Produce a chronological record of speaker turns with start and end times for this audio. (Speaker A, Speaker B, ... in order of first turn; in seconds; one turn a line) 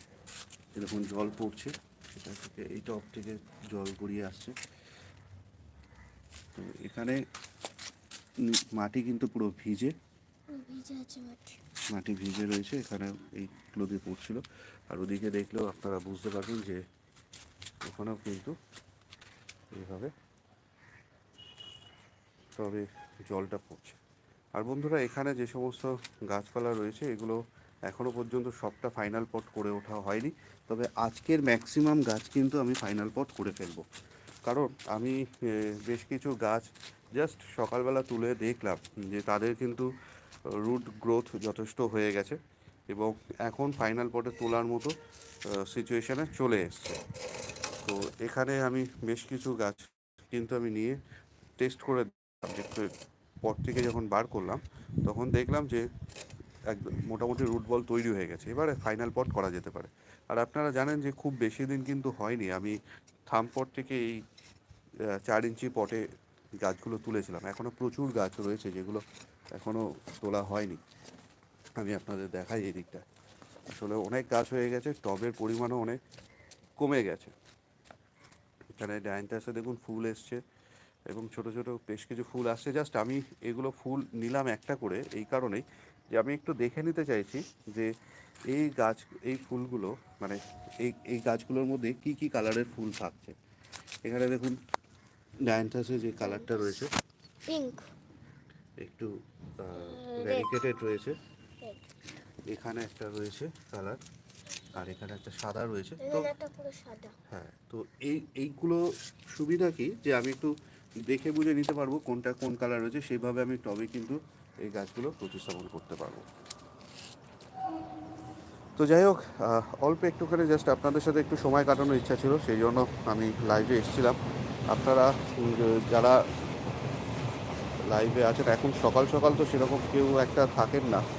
Speaker A: 0.8-4.6
Speaker A: 6.5-7.2
Speaker A: 8.4-9.9
Speaker B: 10.5-11.6
Speaker A: 11.9-16.8
Speaker A: 17.8-18.6
Speaker A: 19.7-20.1
Speaker A: 22.6-24.0
Speaker A: 24.6-33.9
Speaker A: 34.5-39.9
Speaker A: 40.5-44.9
Speaker A: 45.5-47.0
Speaker A: 47.8-51.0
Speaker A: 51.6-52.9
Speaker A: 53.4-55.9
Speaker A: 56.7-62.8
Speaker A: 63.3-64.2
Speaker A: 65.1-66.1
Speaker A: 66.6-69.0
Speaker A: 69.5-70.8
Speaker A: 71.8-73.0
Speaker A: 73.7-76.0
Speaker A: 76.8-77.3
Speaker A: 78.8-80.4
Speaker A: 81.1-87.9
Speaker A: 88.5-93.3
Speaker A: 94.1-94.6
Speaker A: 95.5-96.9
Speaker B: 96.2-96.7
Speaker B: 97.5-97.9
Speaker A: 98.8-101.2
Speaker B: 99.7-100.6
Speaker B: 101.6-101.9
Speaker A: 102.5-104.0
Speaker A: 104.7-106.3
Speaker B: 106.0-107.1
Speaker A: 107.3-110.5
Speaker A: 111.1-116.3
Speaker A: 118.8-124.2
Speaker A: 124.7-126.2
Speaker A: 127.9-131.0